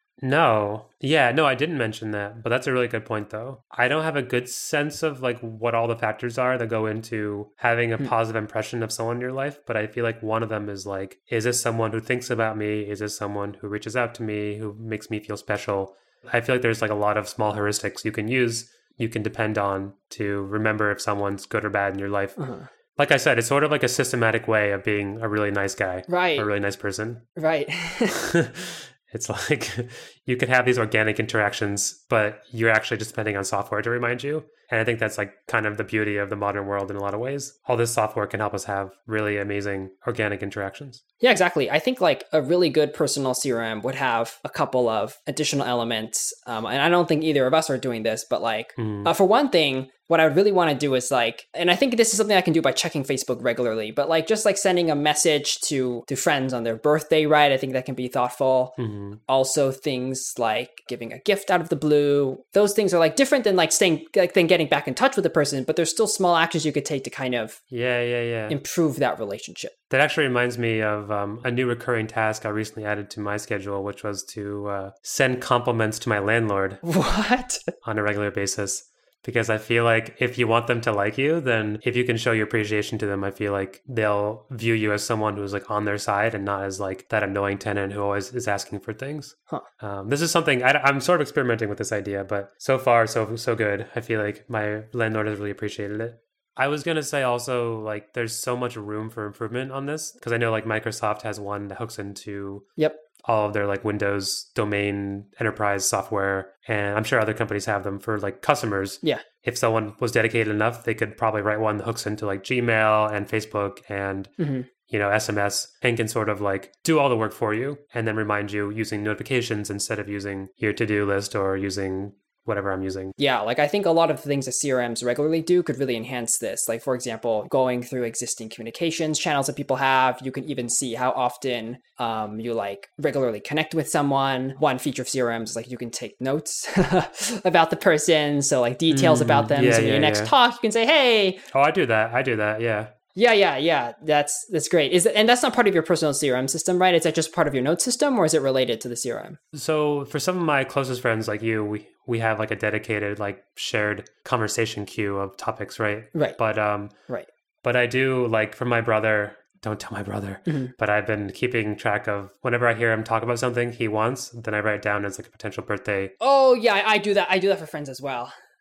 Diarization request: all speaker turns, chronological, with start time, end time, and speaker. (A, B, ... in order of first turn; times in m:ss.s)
0:00.2-0:22.4 A
0:22.4-0:22.7 B
0:23.0-0:27.2 A
0:26.1-0:26.5 B
0:27.4-0:28.2 B
0:28.2-0:41.0 A
0:41.2-0:58.8 B
0:48.8-0:49.1 A
0:58.8-0:59.2 A
0:59.3-1:07.6 B
1:07.7-1:08.6 A
1:08.5-1:09.7 B
1:09.9-1:16.8 A
1:16.8-1:17.6 B
1:17.8-1:42.7 A
1:43.2-1:54.3 A
1:54.4-1:54.7 B
1:54.9-2:03.1 A
2:03.2-2:21.4 B
2:18.9-2:20.3 A
2:21.5-2:22.9 A
2:23.2-2:29.4 B
2:29.5-2:36.9 A
2:36.1-2:36.4 B
2:37.6-2:46.1 A
2:40.5-2:40.7 B
2:46.2-2:48.3 B